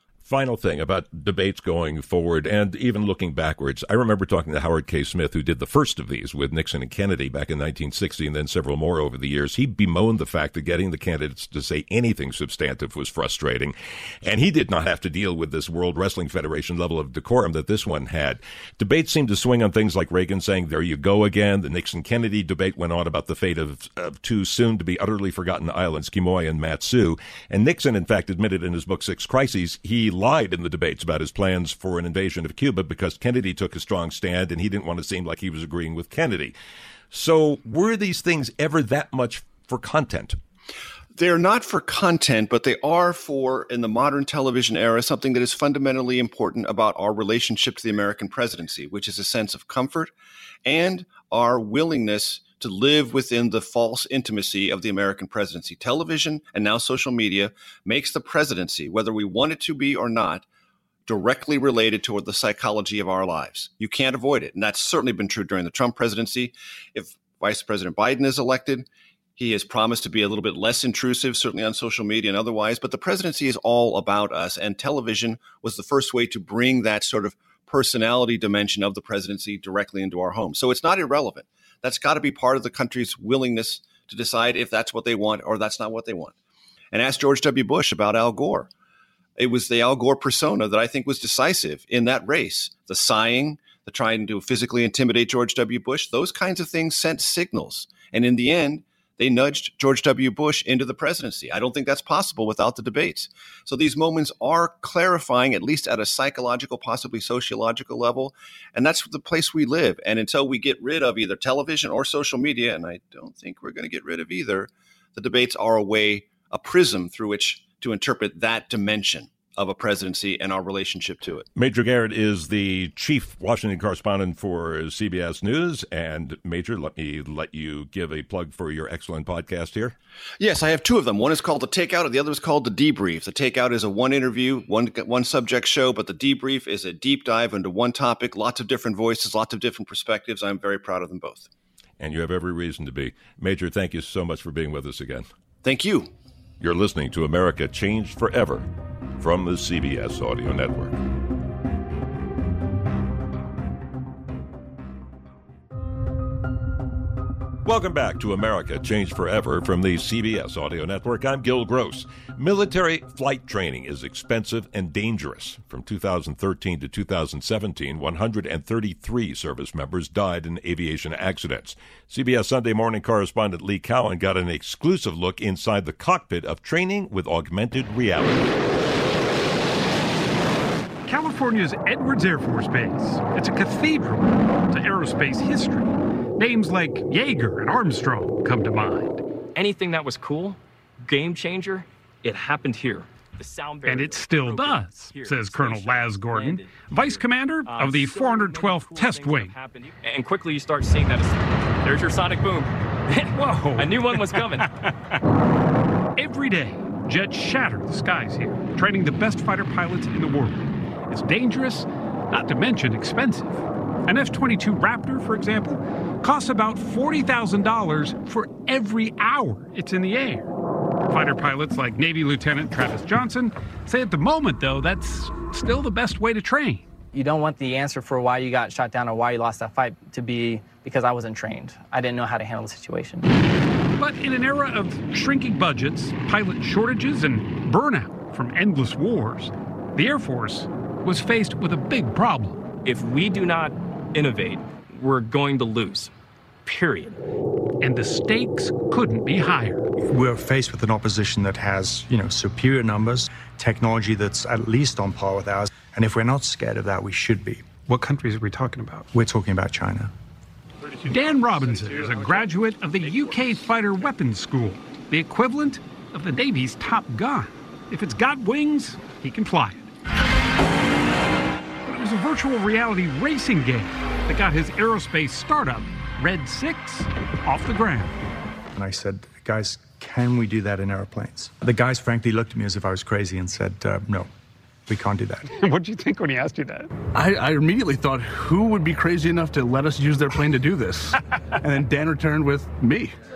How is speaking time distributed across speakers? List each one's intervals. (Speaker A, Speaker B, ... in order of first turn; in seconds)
Speaker A: 0.2-36.5, 37.1-40.4, 121.5-129.9, 142.0-145.3, 146.6-151.0, 157.7-178.5
Speaker B: 41.2-50.1, 50.6-60.5, 61.1-86.3, 86.9-88.7, 89.4-121.5, 130.4-141.5, 145.6-146.1
Speaker C: 181.1-189.2, 193.8-199.6, 203.3-204.6, 206.2-220.5, 221.1-226.9, 233.9-242.6, 247.8-249.9, 261.1-269.9, 271.9-278.2, 285.5-286.9
Speaker D: 189.6-204.9, 242.8-246.1, 246.7-247.2
Speaker E: 227.1-233.3
Speaker F: 250.1-257.9, 259.1-260.1, 278.8-284.3, 284.9-285.5
Speaker G: 287.1-293.1